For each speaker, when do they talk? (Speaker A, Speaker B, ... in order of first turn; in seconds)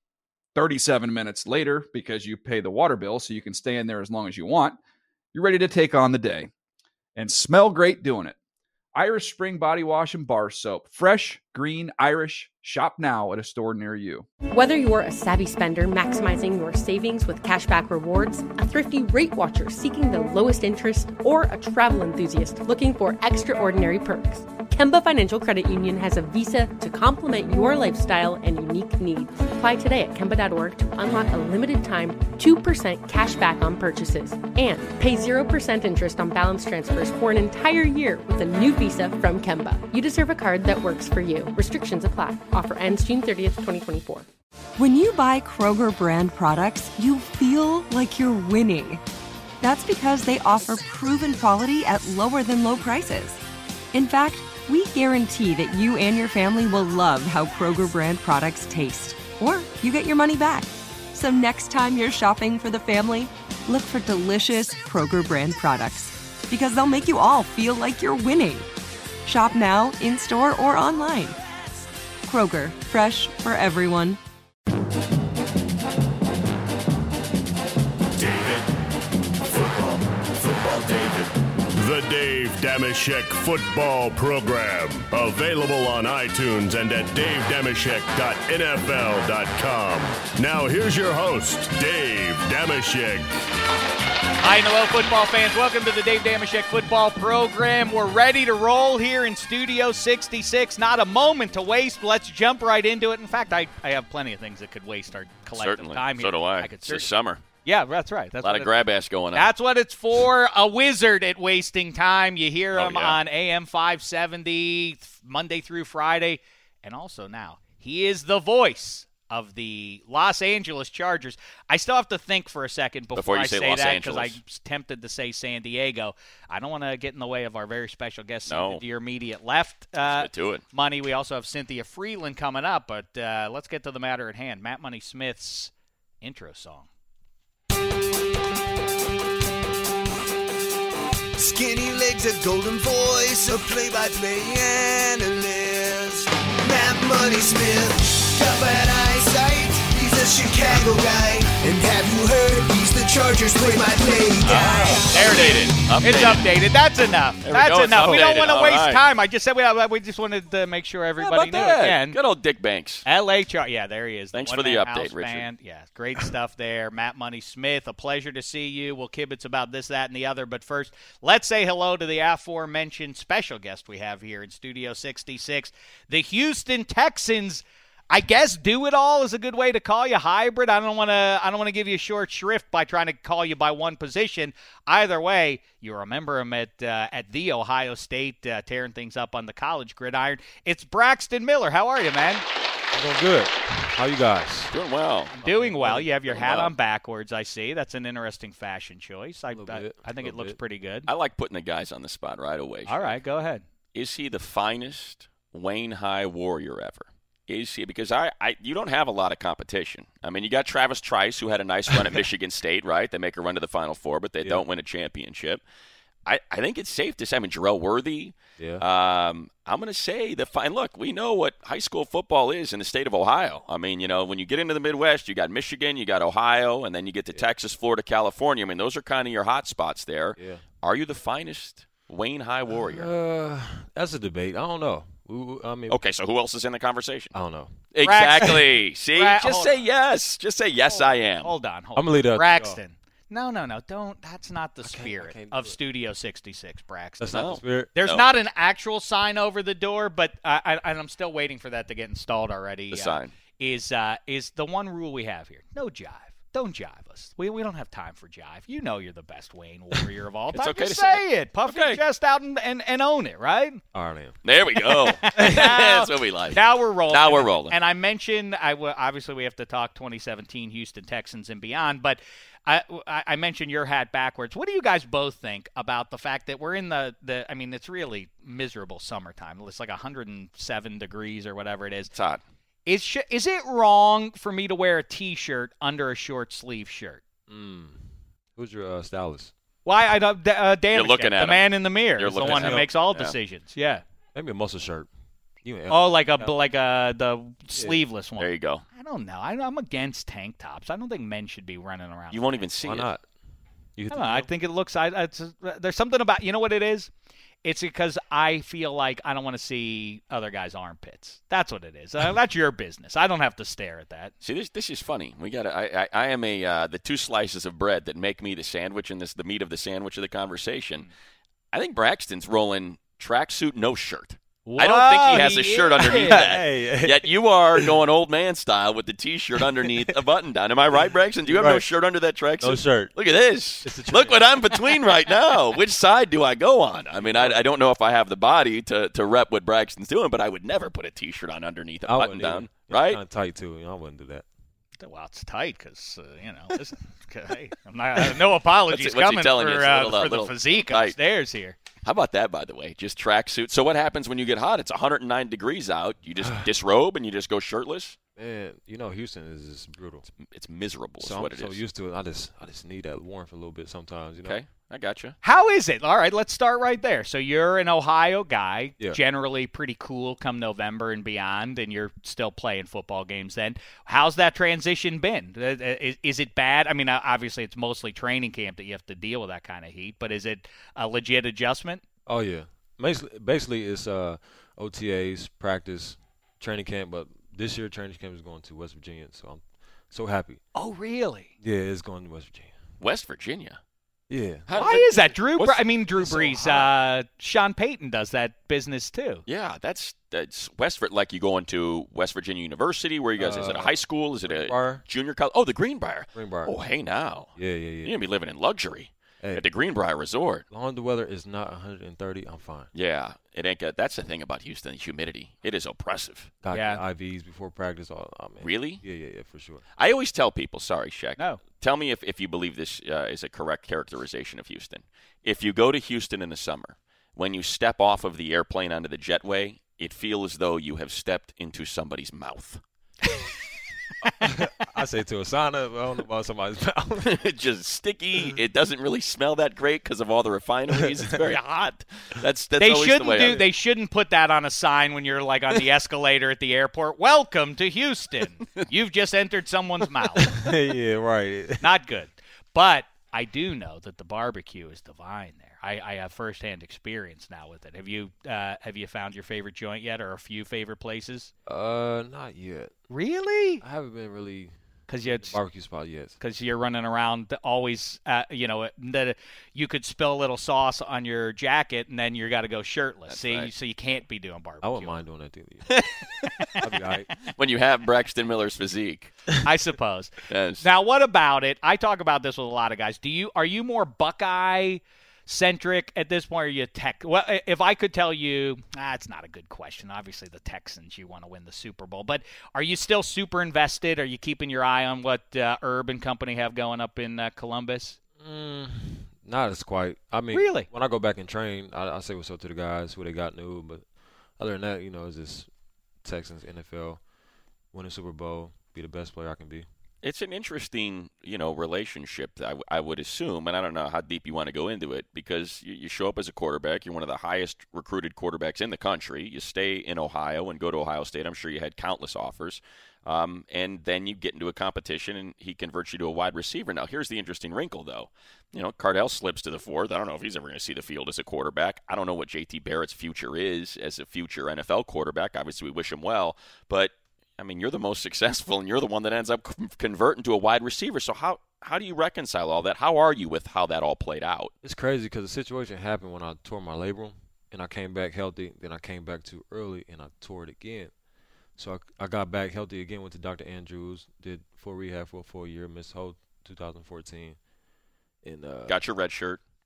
Speaker A: 0.6-4.8, 5.3-6.5, 7.2-8.4, 8.9-14.3
Speaker B: 14.5-44.3
Speaker C: 44.8-49.0, 49.6-53.4, 53.9-68.7, 69.2-71.4, 72.2-74.2
Speaker D: 78.2-78.7, 79.5-93.3
Speaker E: 94.4-107.1, 107.7-108.8, 109.3-136.9, 154.4-162.2, 163.1-192.4, 195.3-201.1, 202.9-203.6, 238.0-239.9, 240.9-263.8, 264.8-282.1, 282.9-287.2, 289.9-294.0, 295.9-302.4, 304.1-307.1, 307.6-314.3, 324.7-326.6, 345.0-351.8, 365.4-382.0, 390.8-391.5, 394.7-399.4, 416.7-417.0, 442.8-450.6, 451.8-461.5, 463.1-463.8, 465.1-465.6, 466.4-475.2, 476.4-476.8, 479.6-498.2, 500.5-500.9
Speaker F: 105.5-107.4, 108.4-109.5, 112.7-113.2, 123.2-124.4, 128.5-128.8, 130.1-130.6, 154.4-156.4, 157.4-159.0, 161.2-163.1, 164.3-165.5, 194.7-195.4, 195.9-196.7, 201.1-203.2, 203.9-215.6, 216.3-233.1, 235.9-237.3, 237.9-241.5, 247.3-248.2, 252.9-253.3, 260.5-262.0, 264.4-267.8, 282.1-282.4, 290.9-293.4, 298.4-298.8, 302.3-303.1, 314.4-321.1, 321.7-343.2, 348.9-351.2, 352.0-358.2, 360.4-361.8, 364.4-365.4, 393.0-393.8, 394.7-396.9, 399.5-407.5, 408.0-410.6, 412.9-416.5, 418.6-419.0, 420.0-432.8, 437.2-443.6, 473.3-473.7, 477.6-479.3, 480.5-480.9, 510.2-544.7, 558.9-559.6
Speaker G: 141.4-155.5
Speaker H: 192.9-194.8, 195.4-196.1, 199.5-200.6, 218.6-218.8, 230.4-230.6, 232.7-236.0, 237.3-237.8, 242.0-242.8, 244.8-245.8, 247.2-247.9, 263.9-264.4, 287.5-289.5, 292.4-292.9, 294.3-295.1, 295.6-296.5, 297.8-298.0, 302.9-303.3, 304.0-304.5, 326.1-327.9, 329.6-330.1, 331.5-331.9, 332.6-333.1, 333.8-334.4, 337.2-337.6, 342.1-344.5, 356.4-356.7, 358.4-360.3, 361.2-364.6, 382.3-390.6, 391.6-392.7, 394.3-394.8, 403.4-405.0, 406.4-406.7, 407.6-408.1, 410.7-412.9, 416.6-419.8, 434.4-437.4, 450.4-451.9, 461.7-462.9, 463.8-466.4, 474.8-476.0, 476.8-477.3, 498.4-504.0, 504.6-505.7, 506.2-507.2, 507.9-509.9, 544.8-551.1, 551.8-557.6, 558.4-559.0